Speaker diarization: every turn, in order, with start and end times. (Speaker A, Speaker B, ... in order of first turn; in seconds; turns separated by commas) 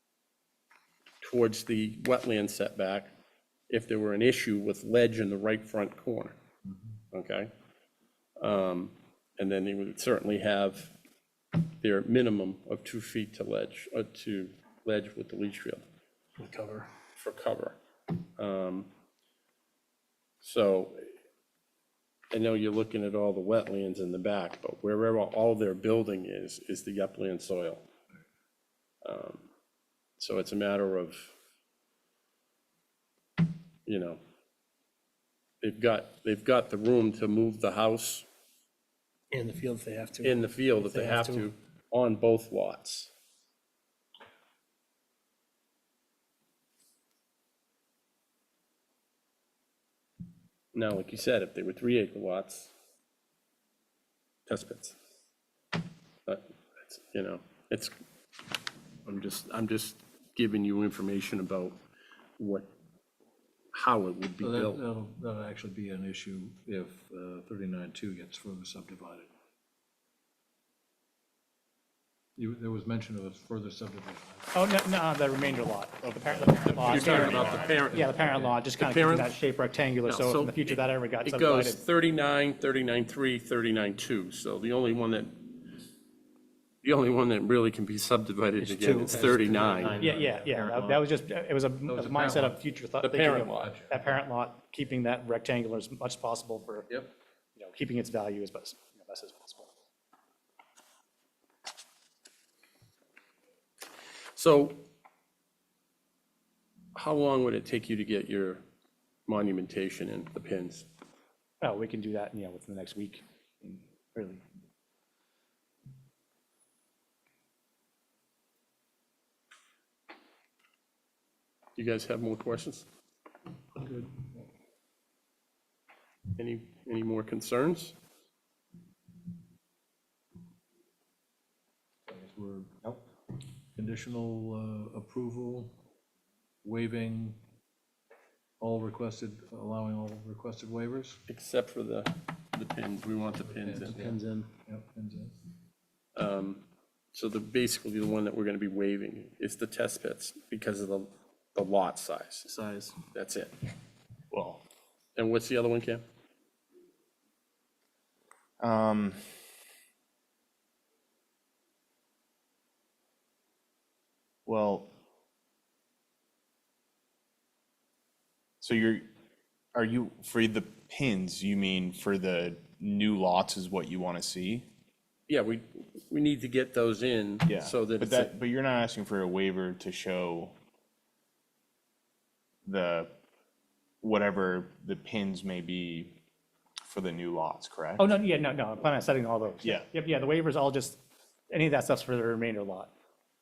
Speaker A: 1.2-3.1, Speaker A: 3.7-6.4, Speaker B: 6.7-6.9, Speaker A: 7.1-7.5, Speaker A: 8.4-10.9, Speaker A: 11.8-15.8, Speaker C: 16.4-16.9, Speaker A: 17.1-17.8, Speaker A: 18.4-18.9, Speaker A: 20.4-21.1, Speaker A: 22.3-27.8, Speaker A: 29.0-29.5, Speaker A: 30.2-31.3, Speaker A: 33.9-34.2, Speaker A: 35.6-38.2, Speaker C: 39.3-41.5, Speaker A: 40.2-43.1, Speaker A: 50.7-52.7, Speaker A: 54.5-54.9, Speaker A: 56.2-57.9, Speaker A: 59.0-61.8, Speaker A: 62.4-62.7, Speaker A: 63.7-64.8, Speaker B: 64.4-69.3, Speaker B: 72.4-74.5, Speaker D: 74.5-81.8, Speaker E: 76.0-77.9, Speaker A: 76.7-79.4, Speaker B: 77.7-78.5, Speaker A: 80.0-85.7, Speaker A: 86.8-90.0, Speaker B: 88.8-91.1, Speaker C: 88.9-89.7, Speaker D: 90.0-96.9, Speaker B: 91.9-92.6, Speaker A: 93.0-93.7, Speaker B: 93.6-94.0, Speaker D: 97.6-99.7, Speaker A: 104.3-104.8, Speaker A: 106.9-108.6, Speaker A: 109.3-110.9, Speaker D: 111.6-113.2, Speaker A: 121.8-122.9, Speaker C: 123.7-124.2, Speaker A: 126.3-128.0, Speaker B: 132.1-133.0, Speaker B: 133.8-135.8, Speaker B: 136.6-137.4, Speaker B: 138.6-141.2, Speaker A: 141.3-144.0, Speaker B: 143.6-145.3, Speaker C: 143.9-144.5, Speaker A: 146.2-153.5, Speaker C: 152.5-152.9, Speaker E: 154.3-154.6, Speaker A: 155.2-156.0, Speaker E: 158.6-159.2, Speaker E: 164.4-164.9, Speaker E: 168.6-169.0, Speaker E: 169.7-174.7, Speaker A: 175.3-178.3, Speaker E: 177.4-180.5, Speaker E: 182.6-183.1, Speaker E: 184.0-186.1, Speaker E: 186.8-188.1, Speaker D: 188.0-191.0, Speaker E: 189.6-189.9, Speaker D: 191.5-192.9